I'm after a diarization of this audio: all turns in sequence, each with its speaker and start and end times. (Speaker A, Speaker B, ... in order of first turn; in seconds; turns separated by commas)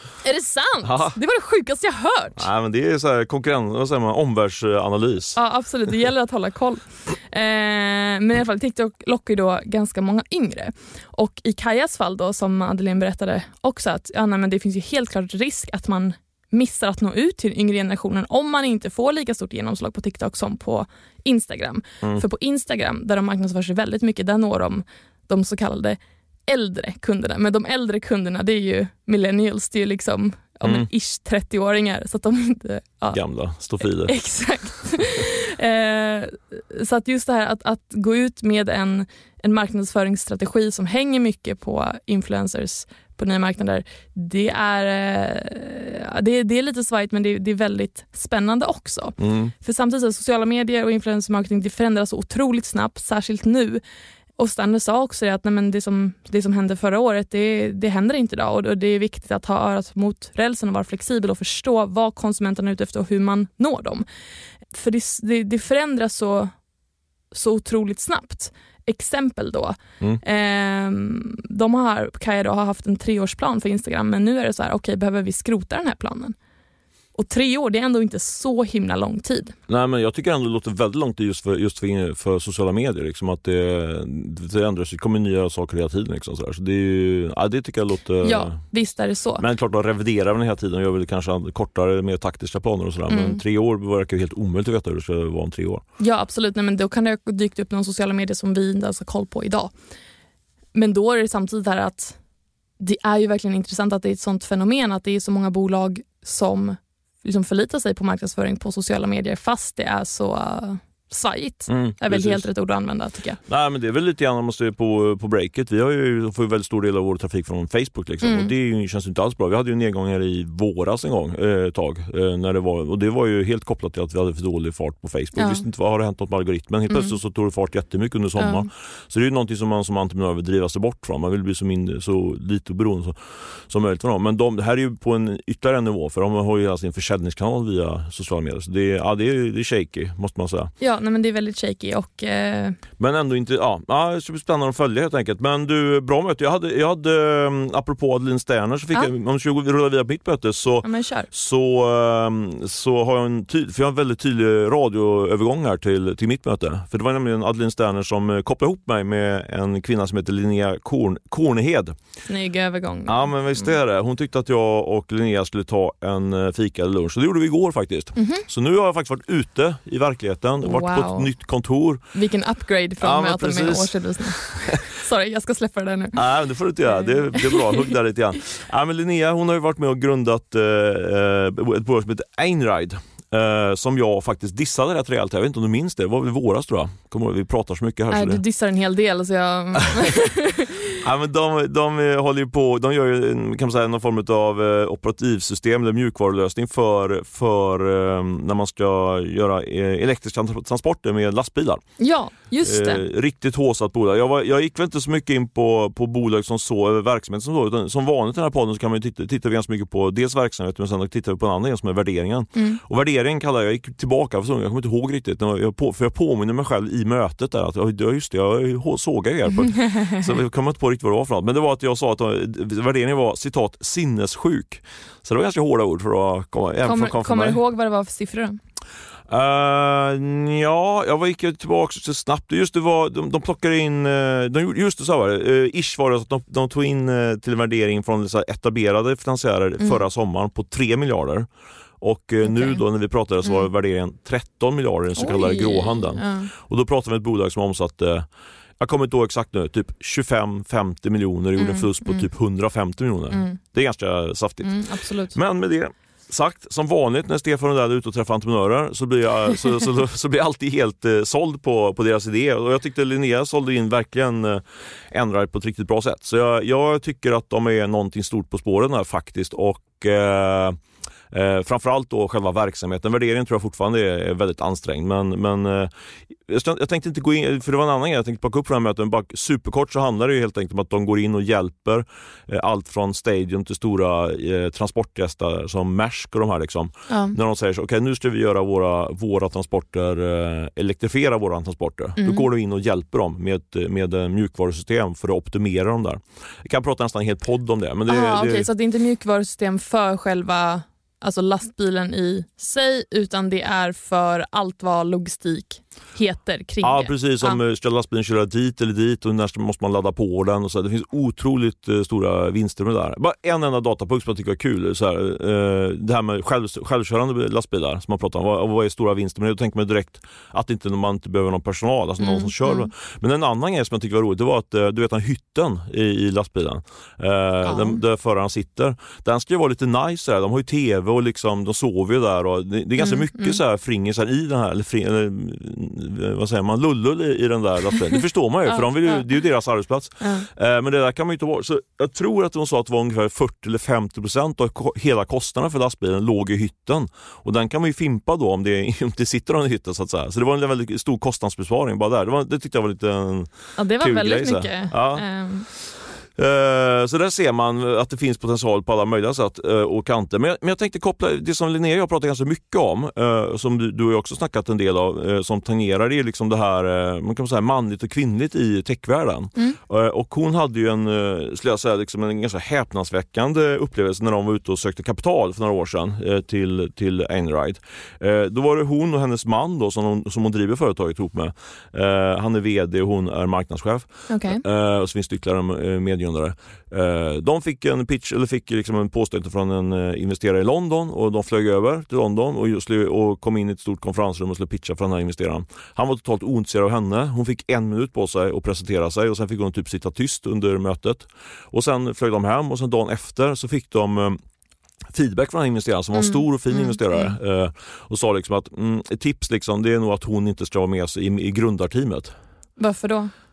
Speaker A: 0.2-2.5, Speaker B: 0.8-1.1, Speaker B: 2.4-5.4, Speaker A: 5.3-33.2, Speaker B: 33.1-34.1, Speaker A: 33.8-53.8, Speaker B: 49.2-49.5, Speaker A: 54.4-64.0, Speaker A: 64.7-66.5, Speaker A: 67.3-76.3, Speaker A: 77.1-79.5, Speaker B: 79.7-88.6, Speaker A: 88.2-89.4, Speaker B: 89.4-95.8, Speaker A: 93.1-93.4, Speaker A: 96.0-99.7, Speaker A: 100.7-102.2, Speaker A: 102.8-113.4, Speaker B: 111.7-112.5, Speaker B: 113.5-140.7, Speaker A: 118.2-118.5, Speaker A: 125.4-125.6, Speaker A: 128.4-128.7, Speaker A: 140.8-142.8, Speaker B: 143.0-161.9, Speaker A: 150.8-151.3, Speaker A: 162.3-163.7, Speaker B: 163.1-172.0, Speaker A: 168.2-168.4, Speaker A: 170.6-171.3, Speaker A: 172.1-176.2, Speaker B: 173.0-174.8, Speaker B: 176.1-188.4, Speaker A: 176.9-177.9, Speaker A: 188.1-191.0, Speaker B: 191.0-201.8, Speaker A: 202.0-203.0, Speaker B: 202.6-227.6, Speaker A: 212.5-212.8, Speaker A: 219.7-220.2, Speaker A: 226.8-228.6, Speaker B: 229.3-241.5, Speaker B: 242.0-248.3, Speaker A: 242.4-242.8, Speaker A: 245.2-246.5, Speaker B: 248.8-270.8, Speaker A: 251.6-252.3, Speaker A: 253.3-253.6, Speaker A: 254.6-255.4, Speaker B: 271.3-275.9, Speaker B: 276.5-298.7, Speaker A: 287.1-287.4, Speaker A: 292.2-292.4, Speaker A: 298.1-307.6, Speaker B: 306.8-404.4, Speaker A: 322.2-322.9, Speaker A: 327.6-328.0, Speaker A: 333.0-333.6, Speaker A: 338.7-339.2, Speaker A: 340.2-340.5, Speaker A: 353.8-355.7, Speaker A: 384.3-384.6, Speaker B: 405.1-412.3, Speaker A: 406.2-407.3, Speaker A: 412.8-413.3